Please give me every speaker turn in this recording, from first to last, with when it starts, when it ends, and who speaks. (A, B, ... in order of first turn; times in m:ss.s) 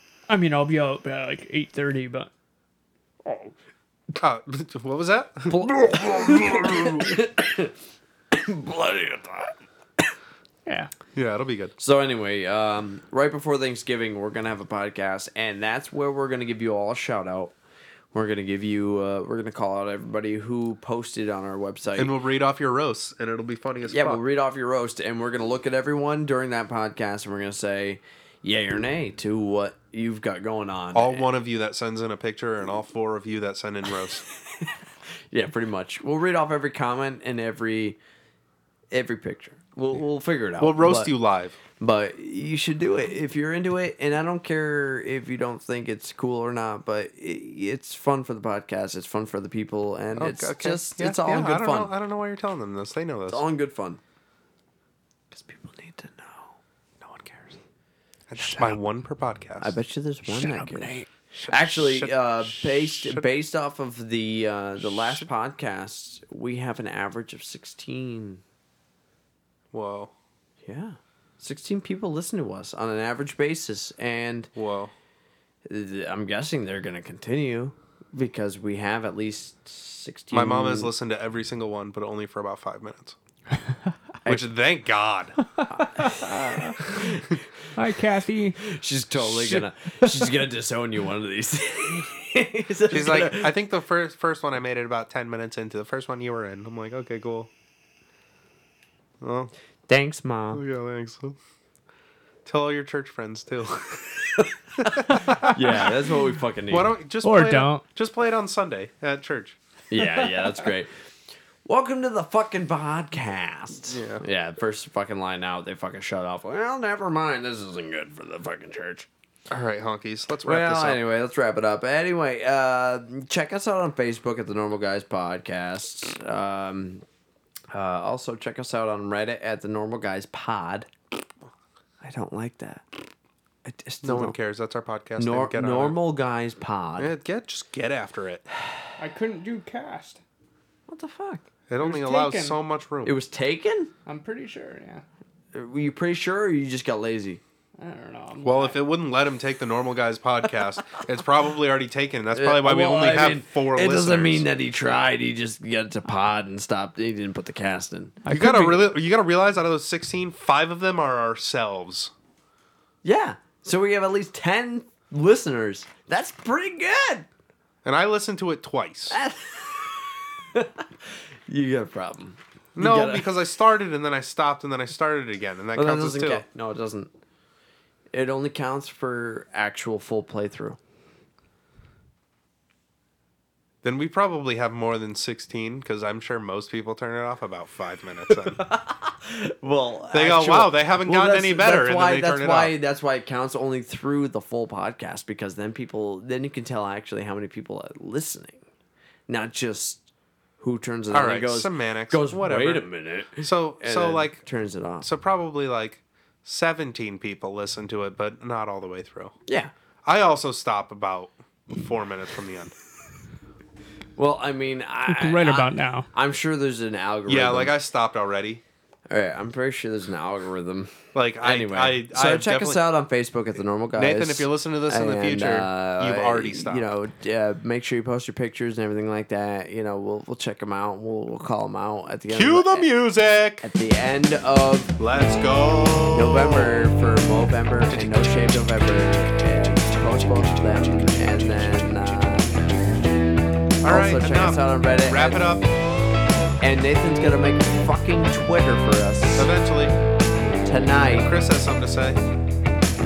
0:00.3-0:02.3 A
0:03.2-0:03.5 A
0:04.2-0:07.2 B
0:05.5-0:07.7 C
0:08.3-0:09.6 C
0:11.1-0:11.7 B
0:11.8-0:17.5 C
0:18.1-0:22.1 C
0:22.0-0:24.2 B
0:23.9-0:31.3 C
0:30.9-0:34.2 B
0:35.3-0:38.0 C
0:38.9-0:41.1 C
0:40.6-0:41.6 B
0:41.8-0:51.9 C
0:50.2-0:53.4 B
0:53.3-0:54.0 C
0:55.3-0:56.5 C
0:57.0-0:57.6 B
0:58.3-0:59.7 B
0:58.4-0:58.7 A
0:59.6-1:08.4 C
1:00.2-1:01.1 A
1:01.3-1:03.3 B
1:04.8-1:05.3 B
1:09.7-1:10.1 B
1:10.6-1:14.5 C
1:14.5-1:14.9 B
1:15.6-1:20.9 C
1:20.3-1:23.2 B
1:24.2-1:25.4 B
1:25.6-1:26.8 A
1:25.7-1:27.2 C
1:27.7-1:28.6 A
1:28.6-1:33.5 C
1:29.2-1:30.3 A
1:32.9-1:37.5 B
1:39.2-1:39.5 B
1:39.9-1:40.6 C
1:40.5-1:41.4 B
1:42.4-1:45.9 B
1:44.8-1:46.9 C
1:46.7-1:49.6 B
1:47.2-1:47.8 A
1:49.9-1:50.9 C
1:51.6-1:59.1 C
1:53.9-1:54.2 B
1:59.5-2:01.0 B
2:00.4-2:07.0 C
2:07.7-2:10.9 C
2:12.0-2:12.9 C
2:13.6-2:14.4 C
2:14.0-2:16.0 B
2:15.2-2:17.1 C
2:17.0-2:18.4 B
2:19.0-2:20.2 A
2:20.9-2:21.4 C
2:21.7-2:23.1 B
2:21.8-2:22.6 A
2:23.0-2:23.9 C
2:24.0-2:25.0 A
2:25.5-2:27.4 C
2:27.8-2:28.8 A
2:28.4-2:34.4 B
2:32.3-2:38.2 C
2:38.2-2:38.9 A
2:38.3-2:42.1 B
2:43.0-2:47.3 C
2:47.8-2:49.2 B
2:49.1-2:53.3 C
2:52.8-2:56.4 B
2:55.7-2:57.1 C
2:58.1-3:00.8 C
3:03.8-3:08.6 B
3:08.3-3:18.6 C
3:10.1-3:12.7 B
3:19.3-3:20.1 C
3:20.6-3:25.1 C
3:21.1-3:24.4 B
3:25.0-3:29.3 B
3:30.0-3:32.7 B
3:34.2-3:37.7 C
3:35.1-3:36.1 A
3:37.3-3:38.6 B
3:39.1-3:52.9 C
3:41.1-3:42.8 B
3:44.0-3:46.9 B
3:52.3-3:53.6 B
3:53.6-3:54.9 C
3:55.0-3:56.7 B
3:56.1-4:02.7 C
3:57.9-3:58.6 B
4:03.8-4:05.4 C
4:03.8-4:05.7 B
4:06.6-4:09.5 C
4:09.4-4:09.9 B
4:10.6-4:11.3 C
4:11.1-4:12.2 B